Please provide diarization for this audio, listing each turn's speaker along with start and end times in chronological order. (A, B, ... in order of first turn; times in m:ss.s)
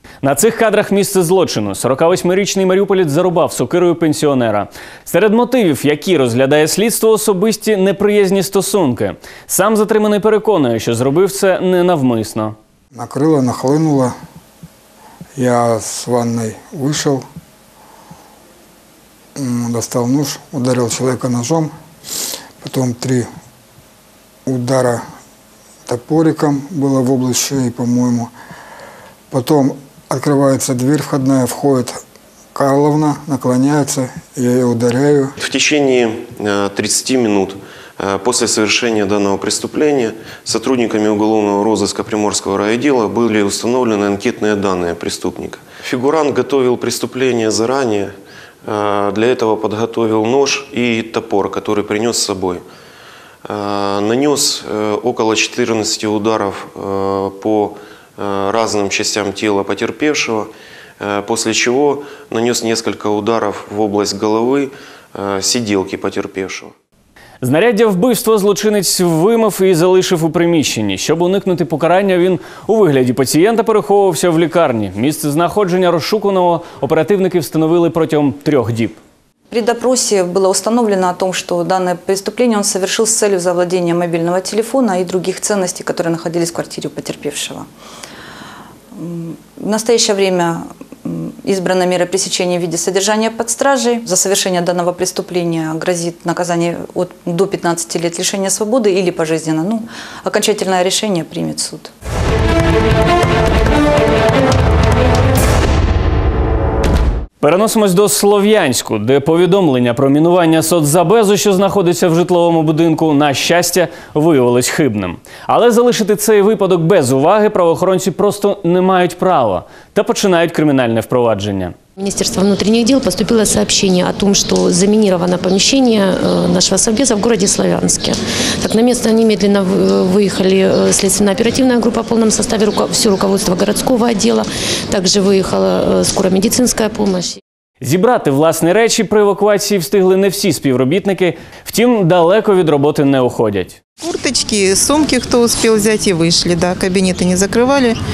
0:00.2-0:12.6 A
0:12.9-0:14.1 B
0:15.4-0:17.2 B
0:19.4-0:21.7 B
0:22.6-0:23.3 B
0:24.5-0:25.0 B
0:25.9-0:28.3 B
0:29.3-0:32.0 B
0:32.6-0:35.3 B
0:35.4-0:48.1 C
0:48.7-0:52.6 C
0:53.5-1:06.7 C
1:07.4-1:19.0 A
1:19.5-1:27.7 D
1:29.0-1:41.9 D
1:47.4-2:01.8 A
2:02.0-2:17.4 E
2:17.8-2:23.8 A
2:24.0-2:28.0 F